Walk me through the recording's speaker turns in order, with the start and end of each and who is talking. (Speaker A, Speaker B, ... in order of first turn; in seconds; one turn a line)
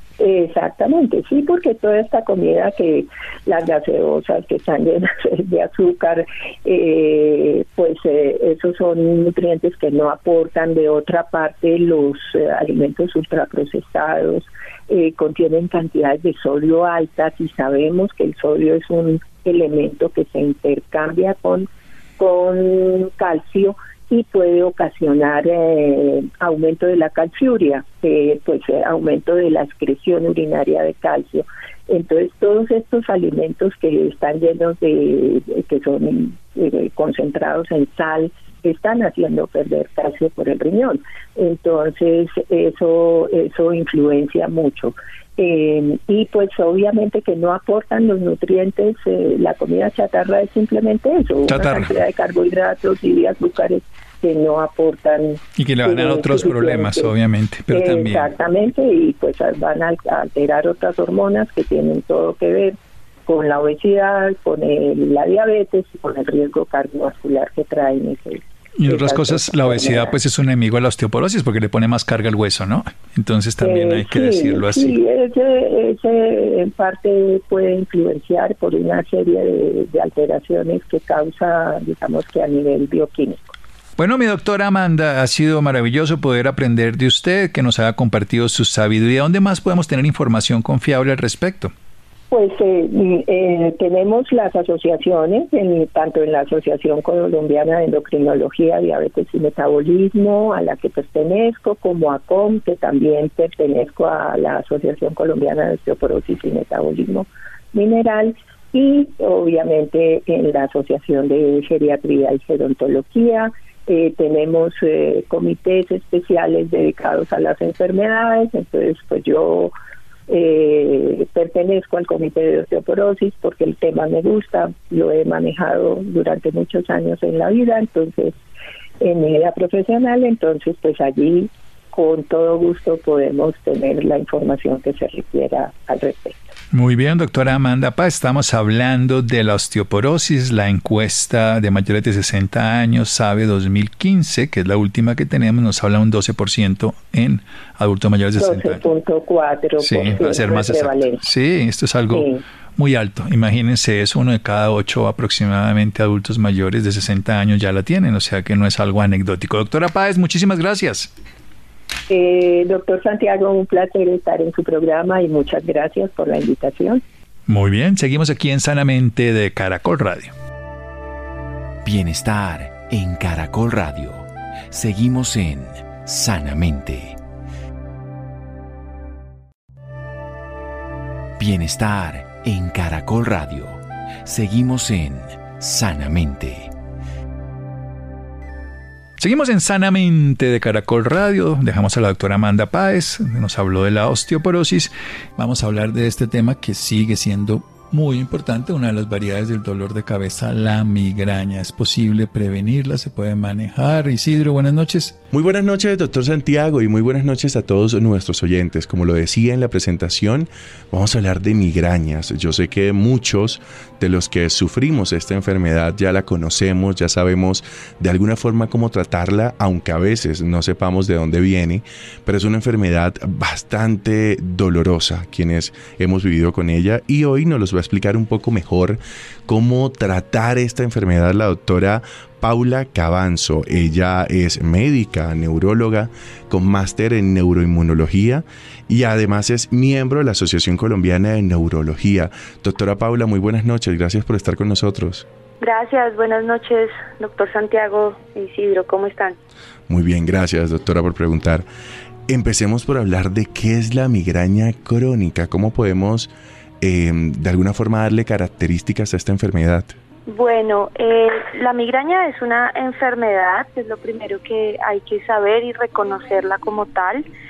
Speaker A: 0.2-57.1
Speaker B: 51.5-51.9
Speaker B: 55.6-58.3
Speaker A: 57.7-62.8
Speaker A: 63.3-70.2
Speaker B: 68.8-74.9
Speaker A: 73.6-83.5
Speaker B: 84.0-91.7
Speaker A: 92.3-119.7
Speaker A: 120.3-128.3
Speaker A: 129.0-136.5
Speaker B: 136.7-148.8
Speaker A: 148.4-151.2
Speaker B: 149.8-161.1
Speaker A: 152.1-152.4
Speaker A: 162.1-167.0
Speaker B: 167.5-170.3
Speaker C: 171.8-177.2
Speaker C: 181.4-186.7
Speaker B: 189.2-205.2
Speaker D: 205.3-245.2
Speaker E: 245.6-249.4
Speaker D: 249.9-251.6
Speaker D: 252.3-259.9
Speaker E: 260.3-267.2